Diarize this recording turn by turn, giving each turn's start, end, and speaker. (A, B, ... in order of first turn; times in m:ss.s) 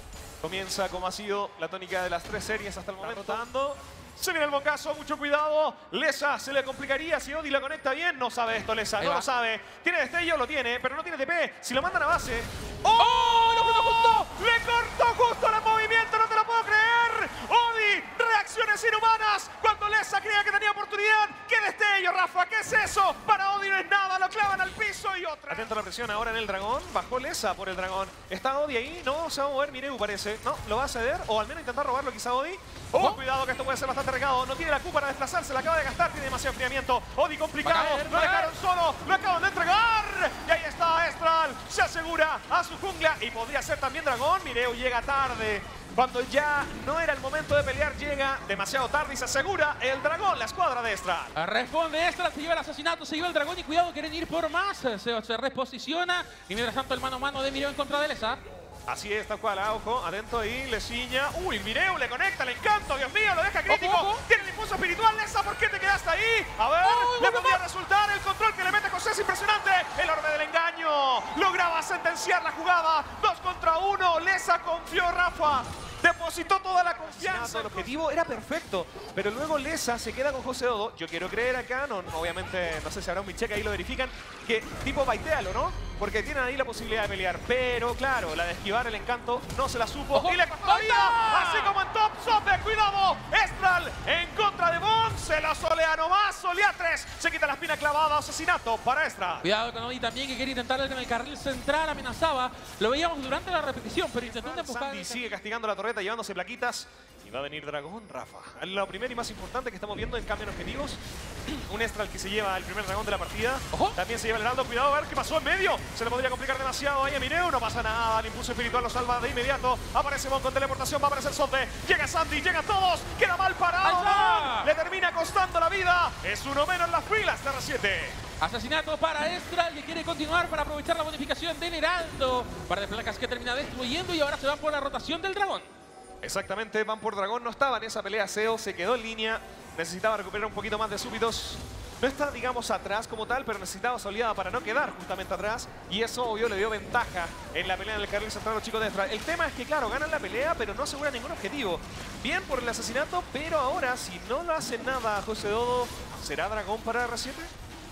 0:00.4-0:51.4 A
0:03.0-0:03.4 B
0:09.0-0:09.3 B
0:13.0-0:14.3 B
0:33.0-0:33.2 B
0:37.6-0:38.5 B
0:51.4-0:58.4 B
0:58.9-1:39.5 A
1:03.7-1:04.2 B
1:06.8-1:07.6 B
1:17.3-1:17.8 B
1:30.1-1:31.7 B
1:39.4-1:45.3 B
1:44.2-2:08.2 A
1:53.7-1:54.0 B
2:03.8-2:04.7 B
2:08.4-2:15.7 B
2:16.2-2:37.5 A